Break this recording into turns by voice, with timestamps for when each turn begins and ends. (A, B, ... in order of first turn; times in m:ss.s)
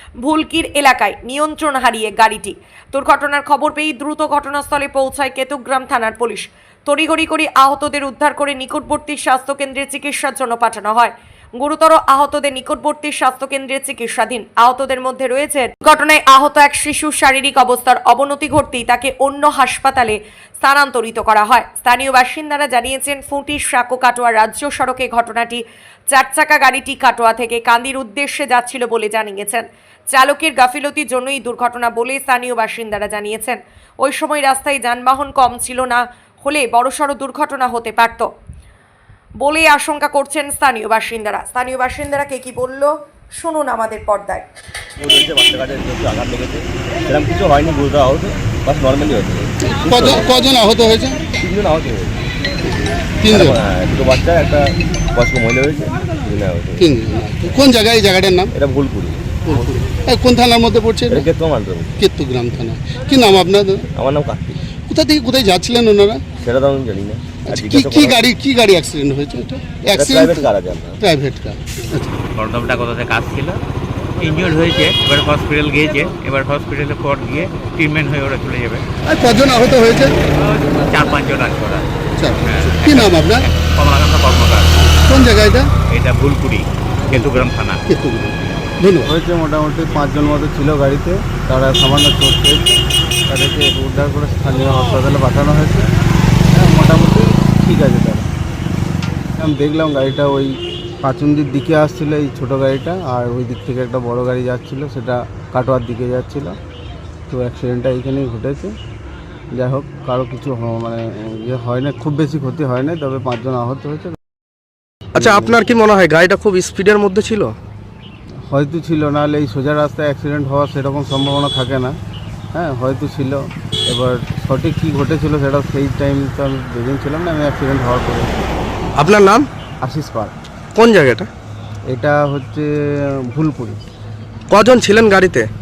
0:00.2-0:38.3 A
0:39.4-0:44.4 A
0:45.0-0:50.3 B
0:49.6-0:51.3 C
0:51.3-0:52.3 B
0:53.2-0:53.6 C
0:53.3-0:57.6 B
0:56.8-0:58.5 C
0:58.5-0:59.6 B
0:59.5-1:01.3 C
1:01.1-1:02.0 B
1:02.0-1:03.9 C
1:03.9-1:04.6 B
1:04.9-1:06.3 C
1:06.4-1:08.2 B
1:07.5-1:10.5 C
1:09.9-1:11.0 B
1:11.0-1:12.1 C
1:12.3-1:13.6 D
1:14.2-1:18.8 D
1:19.0-1:20.1 C
1:20.7-1:21.9 D
1:22.2-1:23.4 C
1:22.4-1:24.8 D
1:24.9-1:25.7 C
1:25.9-1:27.8 D
1:27.9-1:29.1 C
1:29.0-1:35.9 E
1:36.5-1:38.3 E
1:39.4-1:46.5 E
1:47.3-1:48.7 E
1:49.5-1:54.2 E
1:55.1-1:57.5 F
1:55.2-1:55.7 E
1:58.5-2:02.0 E
2:02.5-2:08.4 E
2:09.0-2:09.5 F
2:09.8-2:10.3 E
2:10.7-2:11.3 F
2:11.9-2:13.8 E
2:14.5-2:15.5 F